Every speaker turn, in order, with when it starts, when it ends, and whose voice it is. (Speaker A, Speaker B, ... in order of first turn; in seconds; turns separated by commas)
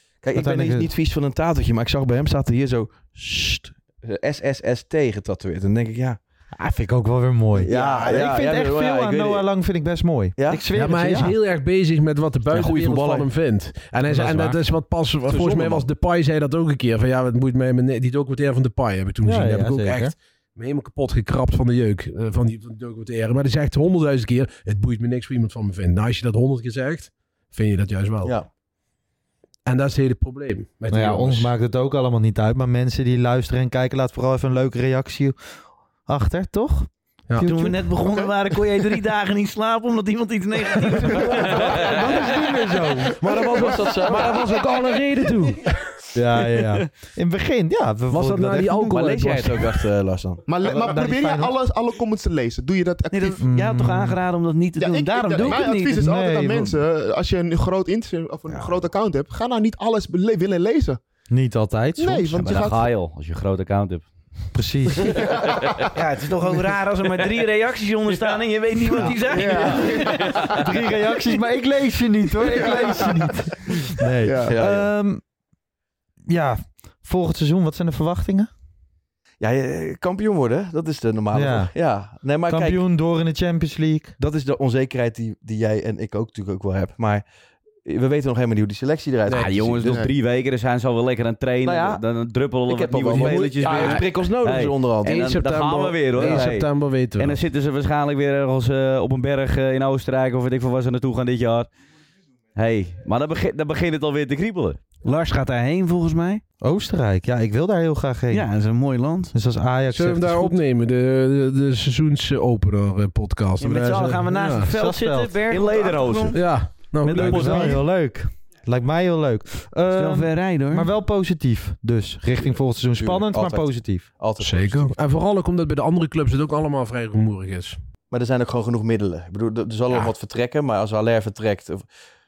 Speaker A: 0.2-6.2, Speaker B: 0.3-0.9, Speaker B: 6.6-11.4, Speaker A: 7.5-9.5, Speaker C: 7.7-8.3, Speaker A: 10.4-10.6, Speaker C: 10.7-28.3, Speaker A: 12.5-13.3, Speaker B: 14.1-14.6, Speaker A: 15.3-15.9, Speaker B: 19.2-20.1, Speaker C: 29.6-31.5, Speaker B: 30.9-35.4, Speaker B: 36.1-37.9, Speaker D: 37.4-41.3, Speaker B: 41.8-43.2, Speaker C: 43.1-45.7, Speaker A: 43.6-44.5, Speaker B: 46.1-49.1, Speaker C: 48.1-49.8, Speaker A: 48.9-50.4, Speaker E: 50.5-53.4, Speaker B: 50.6-51.5, Speaker D: 53.1-56.0, Speaker B: 53.4-54.2, Speaker E: 54.8-61.0, Speaker B: 56.0-56.8, Speaker B: 61.3-62.5, Speaker E: 62.0-62.9, Speaker F: 62.4-64.1, Speaker B: 64.5-65.2, Speaker E: 65.2-65.6, Speaker D: 66.0-70.4, Speaker E: 66.4-66.8, Speaker E: 69.1-70.4, Speaker B: 70.6-75.2, Speaker E: 72.5-73.2, Speaker E: 74.2-74.5, Speaker A: 74.4-74.9, Speaker B: 76.3-78.5, Speaker A: 79.4-82.8, Speaker B: 81.3-81.7, Speaker B: 82.5-84.1, Speaker A: 84.2-87.2, Speaker A: 87.8-90.1, Speaker C: 89.3-90.0, Speaker F: 89.3-101.7, Speaker E: 89.8-90.1, Speaker A: 91.6-92.0, Speaker A: 92.7-96.6, Speaker C: 93.0-94.0, Speaker C: 95.0-97.4, Speaker F: 102.5-104.8, Speaker D: 105.0-106.4, Speaker B: 106.6-108.5, Speaker D: 108.3-109.3, Speaker B: 109.3-110.5, Speaker C: 109.9-114.8, Speaker D: 113.6-116.6, Speaker B: 114.7-115.5, Speaker F: 115.5-116.6, Speaker C: 116.3-117.8, Speaker B: 117.0-124.1, Speaker F: 117.2-117.7, Speaker D: 117.3-117.7, Speaker D: 119.9-120.9, Speaker A: 122.3-125.0, Speaker C: 124.4-127.8, Speaker A: 128.1-131.9